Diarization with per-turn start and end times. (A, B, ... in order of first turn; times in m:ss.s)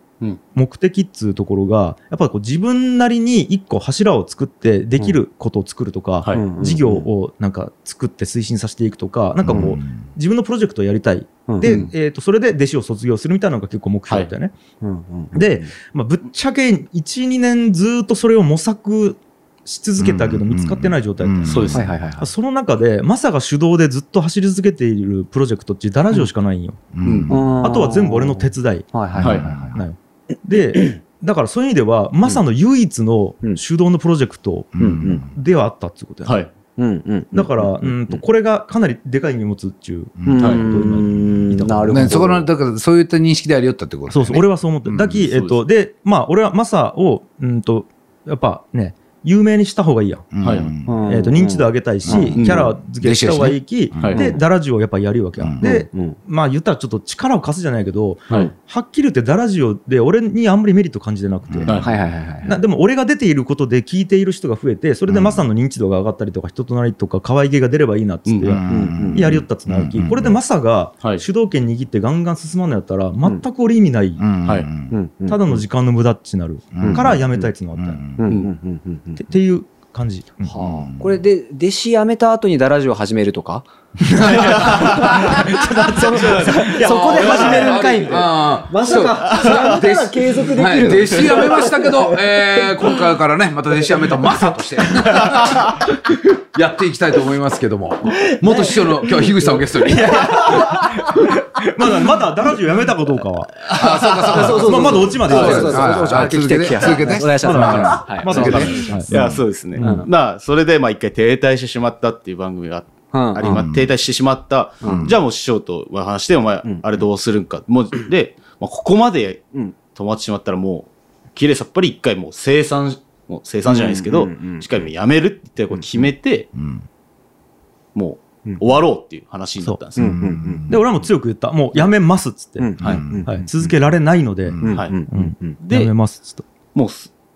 0:00.5-0:14.6 A
0:06.3-0:07.0 B
0:09.4-0:10.0 C
0:11.5-0:11.8 B
0:11.6-0:11.9 D
0:14.8-0:15.7 B
0:15.3-0:26.8 A
0:20.0-0:22.0 C
0:21.4-0:21.9 D
0:21.7-0:22.3 B
0:26.9-0:27.5 C
0:27.0-0:27.4 D
0:27.3-0:29.8 B
0:27.6-0:28.9 A
0:29.2-0:29.8 C
0:29.2-0:29.5 D
0:29.7-0:36.4 A
0:34.8-0:35.3 C
0:34.8-0:35.3 B
0:36.2-0:36.5 D
0:36.8-0:38.2 B
0:37.3-0:42.3 A
0:40.2-0:42.5 B
0:41.9-0:45.3 C
0:44.1-0:50.3 A
0:45.3-0:45.6 D
0:50.3-0:51.0 C
0:50.4-0:50.7 D
0:50.8-0:52.4 B
0:51.1-1:01.8 A
0:52.0-0:54.2 C
0:52.4-0:52.7 D
0:54.0-0:54.3 D
0:54.1-0:54.4 B
0:55.6-0:56.2 B
1:01.5-1:01.8 C
1:01.6-1:01.9 D
1:01.8-1:02.6 B
1:02.4-1:14.2 A
1:05.1-1:05.4 C
1:08.3-1:08.6 D
1:08.5-1:10.4 C
1:08.7-1:09.3 B
1:14.2-1:15.0 C
1:14.9-1:15.6 B
1:15.3-1:18.0 A
1:16.7-1:17.2 C
1:16.8-1:17.5 B
1:17.8-1:18.3 C
1:18.2-1:19.2 B
1:19.2-1:20.5 A
1:20.4-1:33.1 B
1:20.5-1:21.2 C
1:24.1-1:28.1 A
1:24.4-1:25.6 C
1:26.2-1:26.5 D
1:27.2-1:35.8 C
1:33.8-1:35.8 B
1:36.5-1:40.6 C
1:38.4-1:41.3 B
1:39.9-1:43.8 A
1:43.7-1:44.9 D
1:43.7-1:49.4 C
1:43.7-1:48.8 B
1:44.6-1:49.2 A
1:48.3-2:06.5 D
1:49.8-1:50.1 A
1:49.8-1:50.1 B
1:53.1-1:53.6 B
1:53.4-1:53.9 C
1:54.8-1:55.1 B
1:54.9-1:55.2 C
2:03.7-2:04.7 B
2:06.6-2:06.8 C
2:08.0-2:10.2 D
2:10.0-2:10.8 C
2:10.0-2:10.9 B
2:10.6-2:16.5 A
2:12.6-2:13.5 B
2:12.8-2:13.4 C
2:14.5-2:14.8 C
2:14.6-2:15.6 B
2:14.7-2:15.0 D
2:15.6-2:15.9 D
2:16.7-2:17.1 D